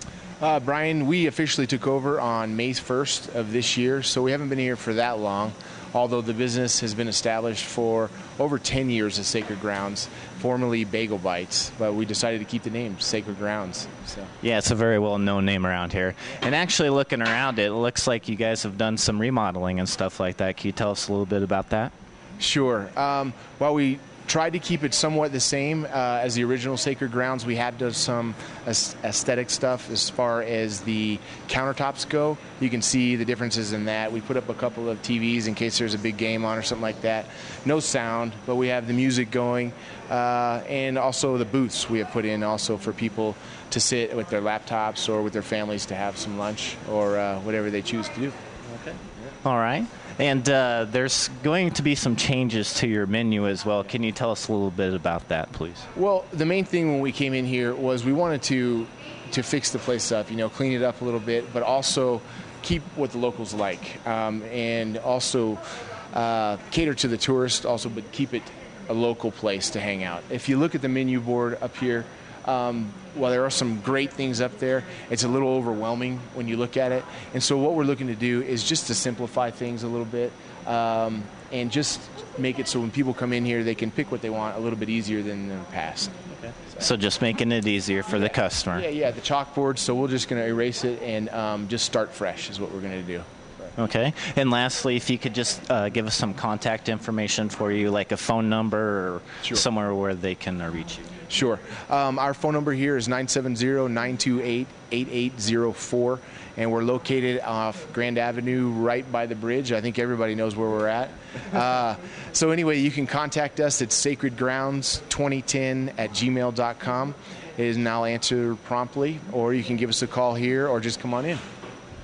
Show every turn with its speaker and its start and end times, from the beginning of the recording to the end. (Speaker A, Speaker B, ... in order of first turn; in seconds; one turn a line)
Speaker A: 0.4-14.3
Speaker B: 14.4-21.9
Speaker A: 22.4-48.4
Speaker B: 48.8-55.9
Speaker A: 56.0-65.6
Speaker A: 66.1-86.9
Speaker B: 86.8-88.8
Speaker A: 88.1-93.3
Speaker B: 93.8-101.2
Speaker A: 99.4-99.7
Speaker A: 101.2-121.4